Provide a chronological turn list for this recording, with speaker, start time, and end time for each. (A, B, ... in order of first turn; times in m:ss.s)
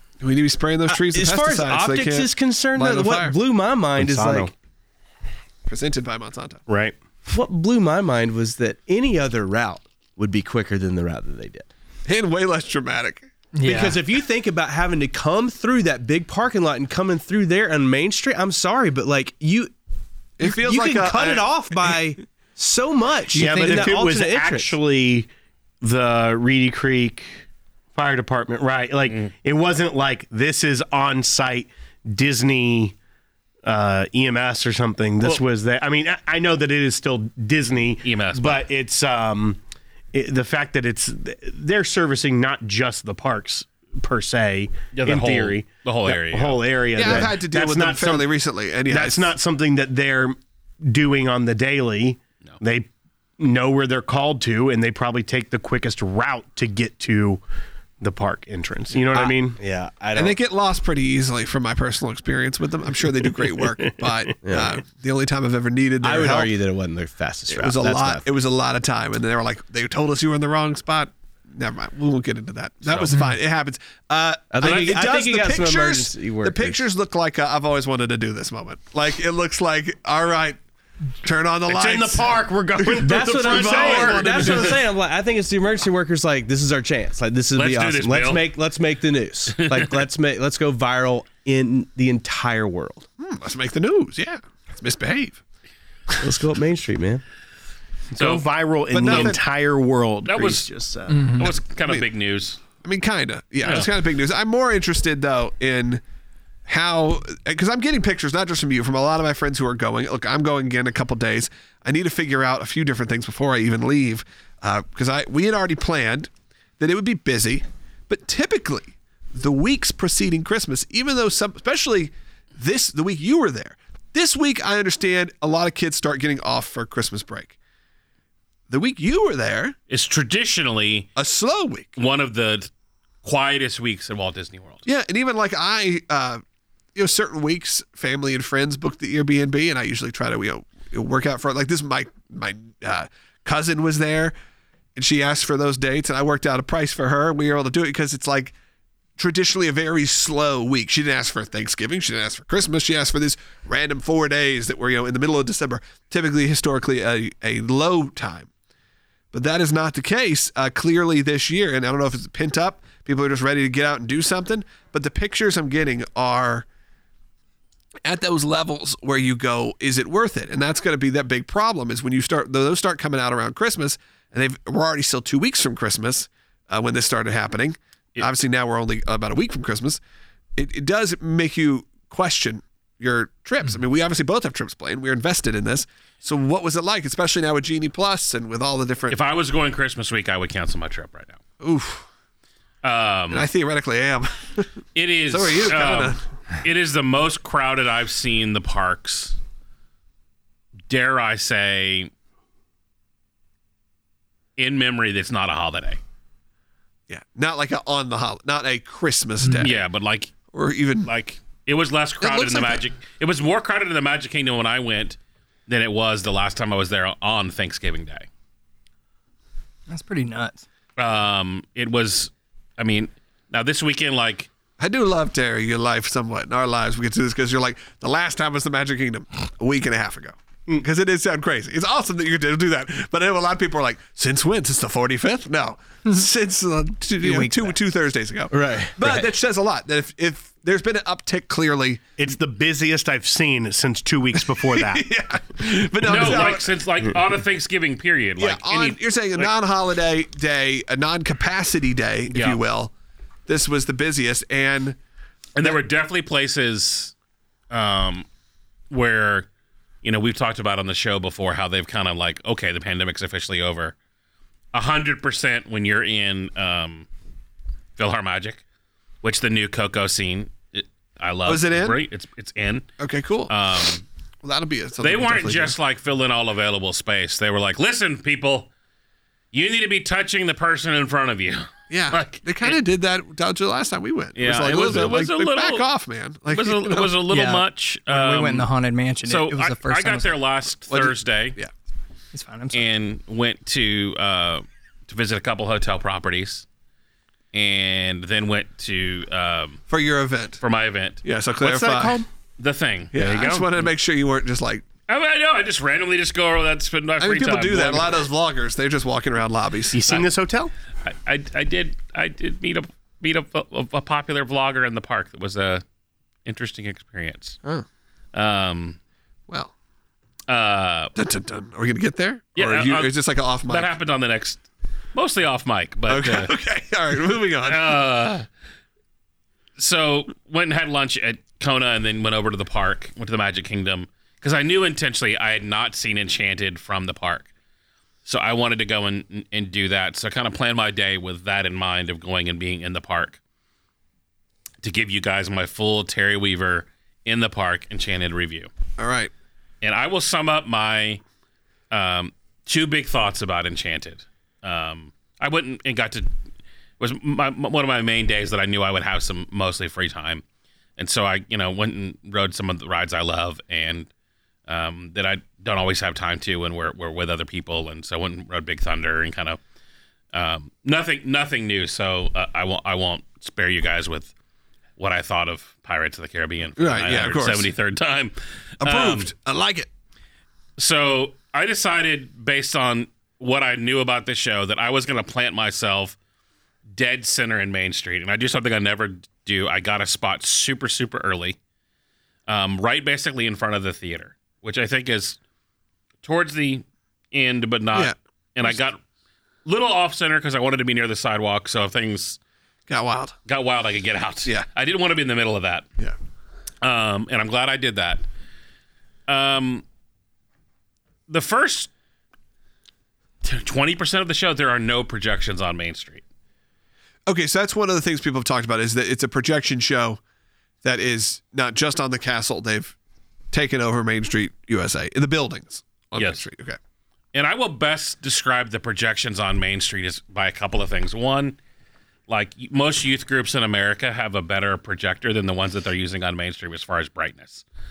0:00.2-0:03.4 A
0:01.0-0:04.5 B
0:04.0-0:04.5 C
0:05.7-0:06.6 A
0:06.7-0:06.9 C
0:07.3-0:11.7 B
0:12.0-0:13.3 A
0:13.5-0:14.0 D
0:13.6-0:19.7 B
0:20.4-0:21.5 A
0:20.4-0:24.8 B
0:23.3-0:24.0 D
0:23.4-0:25.3 C
0:25.8-0:32.9 C
0:29.0-0:29.3 E
0:33.6-0:39.6 C
0:38.0-0:38.6 E
0:40.1-0:48.3 C
0:44.9-0:47.3 E
0:46.9-0:49.3 A
0:48.9-0:57.4 C
0:58.0-0:59.6 C
0:59.3-1:00.4 B
1:00.1-1:06.5 A
1:04.4-1:04.7 B
1:06.0-1:08.3 B
1:07.5-1:20.6 A
1:12.8-1:13.2 E
1:13.1-1:13.4 D
1:14.5-1:16.8 B
1:21.2-1:22.3 A
1:21.7-1:24.8 C
1:23.0-1:24.8 A
1:23.0-1:33.1 B
1:27.5-1:28.5 E
1:29.6-1:29.9 E
1:33.2-1:35.4 A
1:36.2-1:37.2 B
1:38.1-1:41.3 C
1:38.2-1:38.5 E
1:38.9-1:39.4 A
1:39.0-1:39.3 E
1:40.2-1:40.7 E
1:41.1-1:41.5 D
1:41.3-1:42.6 E
1:42.8-1:46.0 A
1:43.6-1:43.9 E
1:46.7-2:07.6 A
2:08.7-2:09.8 A
2:09.9-2:11.1 E
2:11.2-2:11.9 A
2:12.0-2:12.7 E
2:13.2-2:14.9 E
2:14.8-2:16.4 A
2:16.9-2:24.3 A
2:25.0-2:28.5 A
2:29.2-2:38.5 A
2:39.3-2:46.6 A
2:48.0-3:00.0 A
3:00.6-3:09.2 A
3:09.1-3:11.4 E
3:11.6-3:12.0 A
3:12.8-3:13.5 E
3:13.3-3:14.7 A
3:14.9-3:19.4 E
3:15.3-3:16.2 A
3:20.9-3:22.1 E
3:24.6-3:26.0 E
3:27.1-3:29.8 A
3:29.6-3:30.3 E
3:30.5-3:31.1 A
3:31.0-3:38.3 E
3:32.2-3:32.8 A
3:39.9-3:40.6 D
3:41.0-3:44.5 E
3:44.8-4:02.0 A
3:57.2-3:57.7 D
3:58.5-3:59.3 B
4:02.2-4:05.0 C
4:04.4-4:06.7 A
4:06.0-4:09.5 E
4:08.4-4:12.9 A
4:12.3-4:12.6 E
4:13.5-4:15.0 A
4:15.5-4:17.1 E
4:17.7-4:18.2 E
4:18.9-4:19.5 E
4:20.0-4:23.9 E
4:24.7-4:27.1 E
4:28.0-4:28.6 E
4:29.2-4:32.9 E
4:31.4-4:32.0 A
4:33.0-4:33.5 A
4:33.5-4:34.0 E
4:34.4-4:35.8 A
4:35.0-4:38.7 E
4:39.5-4:42.8 E
4:41.9-4:47.1 A
4:44.4-4:45.9 E
4:46.5-4:48.7 E
4:47.3-4:50.4 D
4:49.2-4:51.6 E
4:50.9-4:51.7 A
4:52.3-4:52.9 D
4:52.7-4:56.6 E
4:57.5-4:59.8 E
4:59.9-5:00.6 A
5:00.6-5:01.2 E
5:01.2-5:02.2 A
5:01.6-5:02.3 C
5:02.6-5:03.1 E
5:03.1-5:04.8 A
5:03.1-5:03.7 C
5:05.1-5:08.2 E
5:07.2-5:10.0 A
5:09.9-5:10.7 C
5:11.0-5:15.8 E
5:16.4-5:17.6 E
5:18.3-5:19.0 E
5:20.5-5:21.1 E
5:21.1-5:23.9 A
5:22.6-5:26.5 E
5:26.1-5:28.0 A
5:27.6-5:28.4 E
5:29.8-5:37.5 E
5:38.2-5:43.4 E
5:44.8-5:48.7 E
5:49.0-5:49.3 A
5:49.8-5:51.2 E
5:51.9-5:56.3 E
5:57.0-6:00.4 E
6:01.0-6:04.1 E
6:04.7-6:09.6 E
6:10.3-6:14.3 E
6:15.0-6:19.3 E
6:16.8-6:17.7 A
6:18.8-6:19.9 A
6:20.8-6:26.2 E
6:26.9-6:31.6 E
6:32.5-6:35.4 E
6:36.2-6:39.0 E
6:37.9-6:38.8 A
6:39.6-6:42.4 E
6:42.9-6:43.3 A
6:43.4-6:45.9 E
6:46.8-6:48.2 E
6:49.3-6:49.8 E
6:51.3-6:51.9 E
6:53.4-6:56.2 E
6:57.3-7:00.2 A
7:00.8-7:03.0 A
7:03.5-7:06.8 A
7:06.2-7:06.4 E
7:07.3-7:11.6 E
7:12.3-7:17.6 E